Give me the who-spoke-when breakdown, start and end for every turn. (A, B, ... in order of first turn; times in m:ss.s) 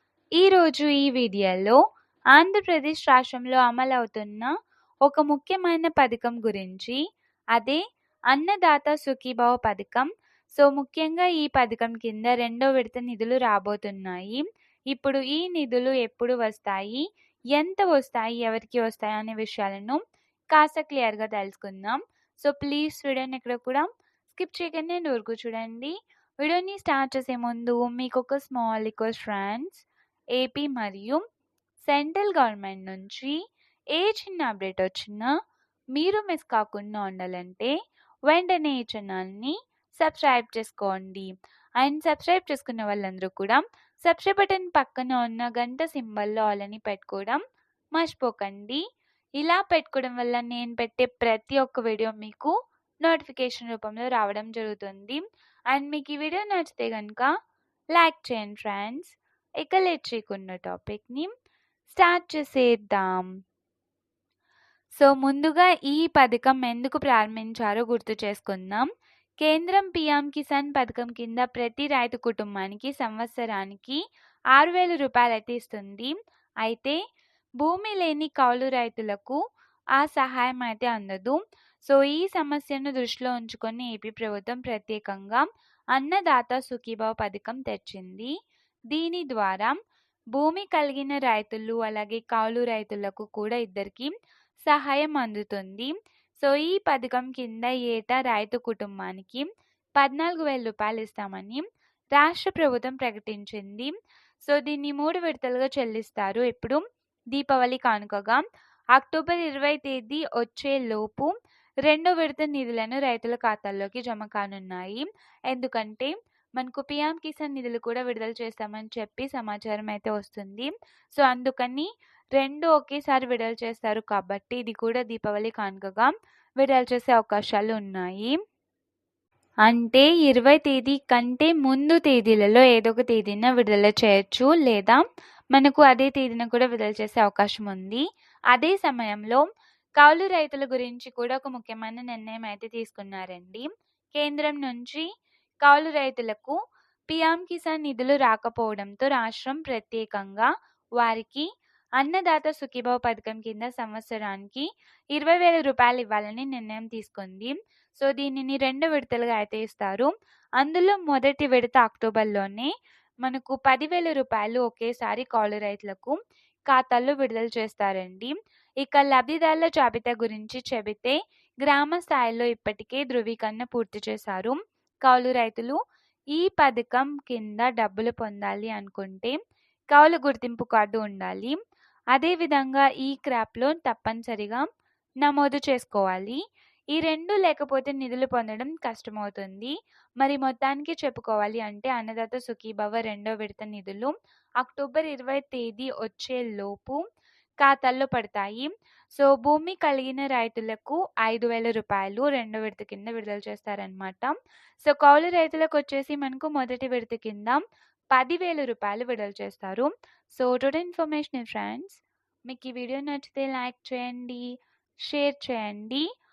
0:00.4-0:01.8 A
0:02.4-0:04.5 A
0:05.0-0:07.0 A
0:07.6-0:07.8 A
0:08.3-0:10.0 A
0:10.6-0:17.0 A
0:17.5-0:20.0 A
0:20.5-0:29.8 A
0:30.4-0:31.2 A
0:31.8-0:33.3 A
0:34.0-0:35.3 A
0:36.0-0:37.7 A
0:38.3-0:41.3 A
0:41.8-0:47.4 A
0:48.0-0:48.8 A
0:49.4-0:52.5 A
0:53.0-0:55.2 A
0:55.7-0:57.3 A
0:58.0-1:01.3 A
1:01.9-1:03.3 A
1:05.0-1:08.8 A
1:09.4-1:14.0 A
1:14.6-1:16.1 A
1:16.6-1:17.0 A
1:17.6-1:19.4 A
1:20.0-1:25.4 A
1:25.9-1:28.3 A
1:28.9-1:29.7 A
1:30.4-1:34.1 A
1:34.7-1:39.4 A
1:40.0-1:41.6 A
1:42.2-1:43.9 A
1:44.5-1:46.8 A
1:47.3-1:48.4 A
1:49.0-1:51.3 A
1:51.9-2:08.3 A
2:09.7-2:15.0 A
2:15.5-2:19.4 A
2:20.0-2:25.0 A
2:25.6-2:26.5 A
2:27.1-2:30.5 A
2:31.0-2:31.4 A
2:32.0-2:42.7 A
2:43.2-2:46.2 A
2:46.7-2:55.8 A
2:56.4-2:59.3 A
2:59.9-3:01.6 A
3:02.1-3:04.6 A
3:05.2-3:06.4 A
3:06.9-3:17.0 A
3:17.6-3:27.6 A
3:28.1-3:34.4 A
3:35.1-3:36.0 A